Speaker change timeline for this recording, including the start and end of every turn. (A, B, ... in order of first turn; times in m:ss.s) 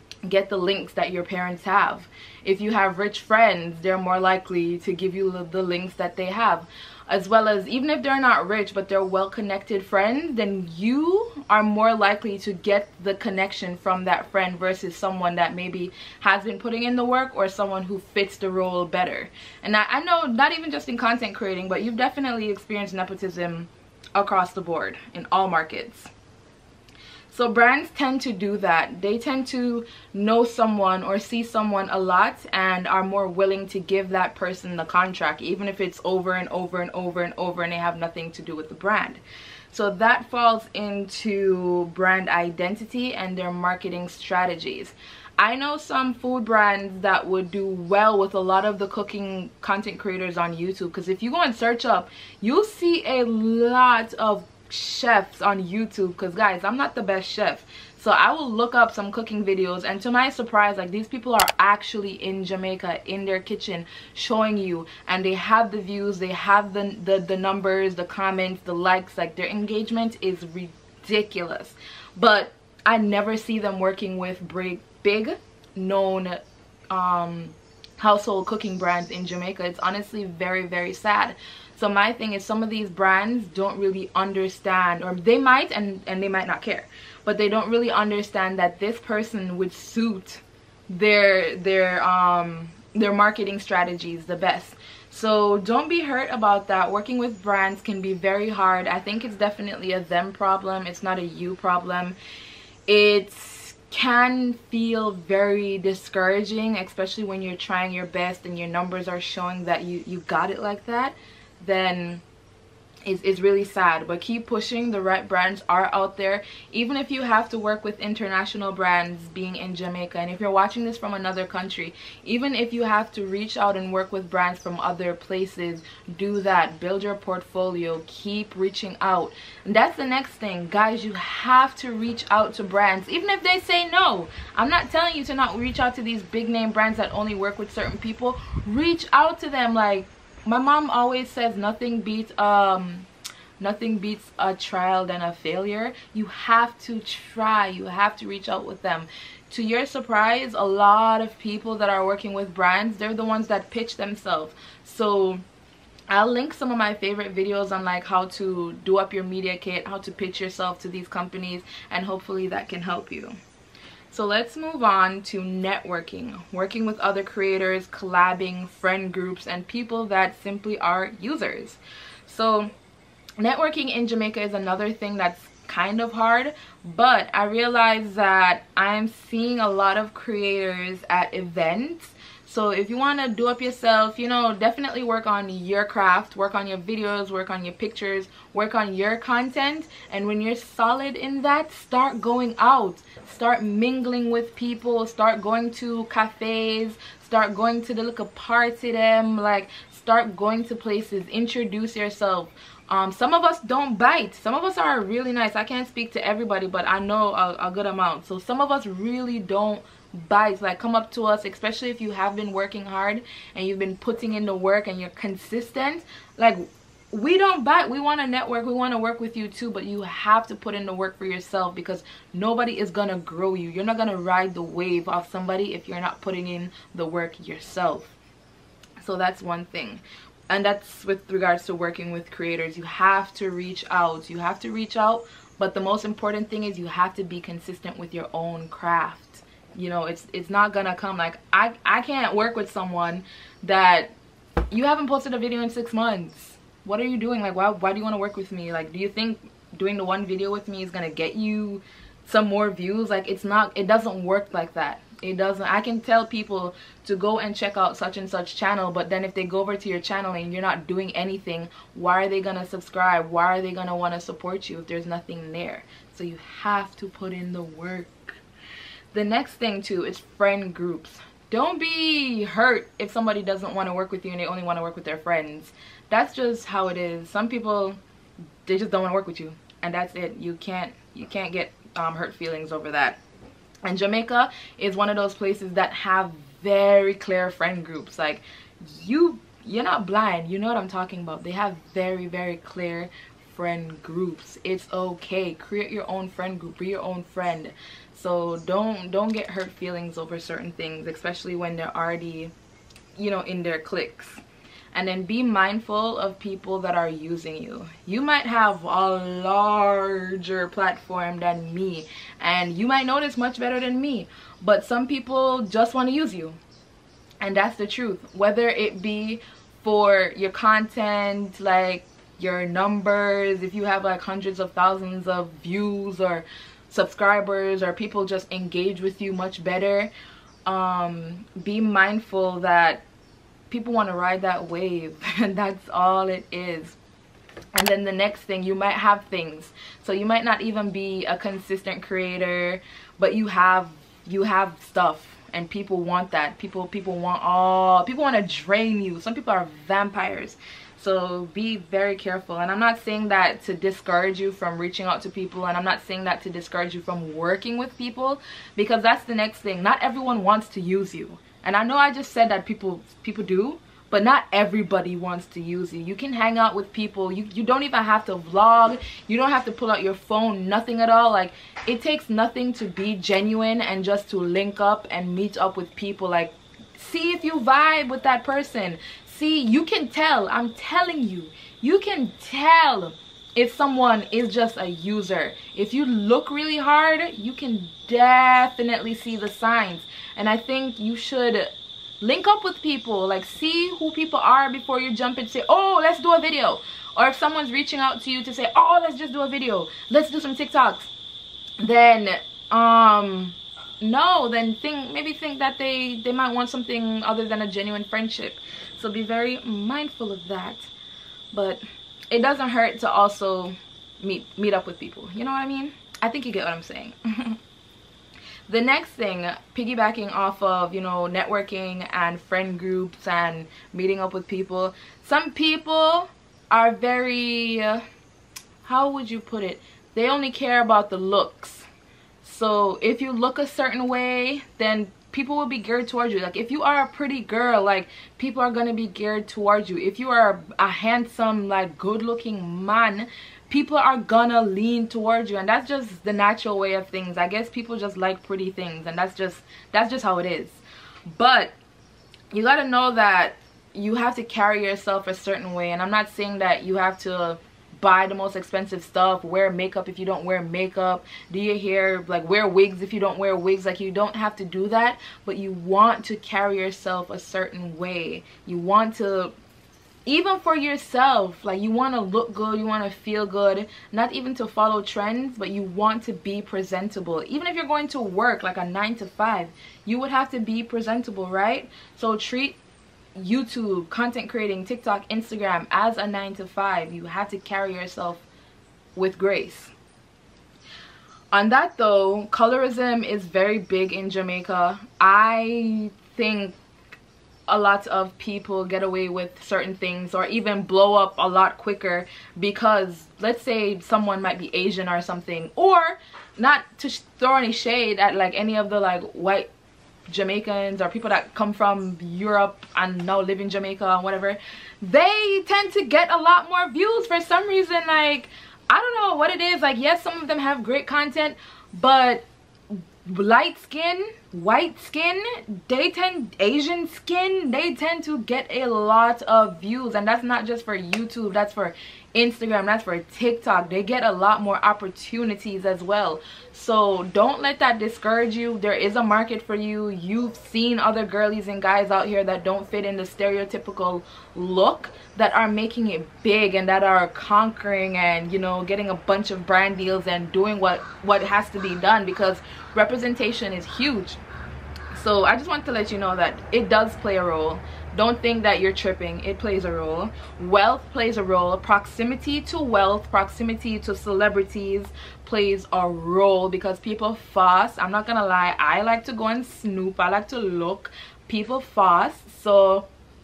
0:00.2-0:26.1 A
0:27.3-1:42.2 A
1:42.9-1:52.2 A
1:53.0-2:23.1 A
2:23.6-2:35.4 A
2:36.1-2:43.4 A
2:44.1-2:52.7 A
2:53.4-3:48.1 A
3:49.0-4:04.1 A
4:04.7-4:28.4 A
4:29.1-4:38.0 A
4:38.6-4:43.2 A
4:43.8-5:02.5 A
5:03.2-5:16.6 A
5:17.4-5:30.1 A
5:30.6-5:33.0 A
5:33.7-5:37.0 A
5:37.7-6:41.1 A
6:41.8-6:50.9 A
6:51.5-6:57.6 A
6:58.7-7:08.0 A
7:08.8-7:11.9 A
7:12.4-7:30.8 A
7:31.4-7:31.7 A
7:32.5-7:49.5 A
7:50.3-8:02.8 A
8:03.4-8:08.4 A
8:09.2-8:09.9 A
8:11.5-8:16.8 A
8:17.7-8:29.7 A
8:30.3-9:14.4 A
9:15.1-9:33.1 A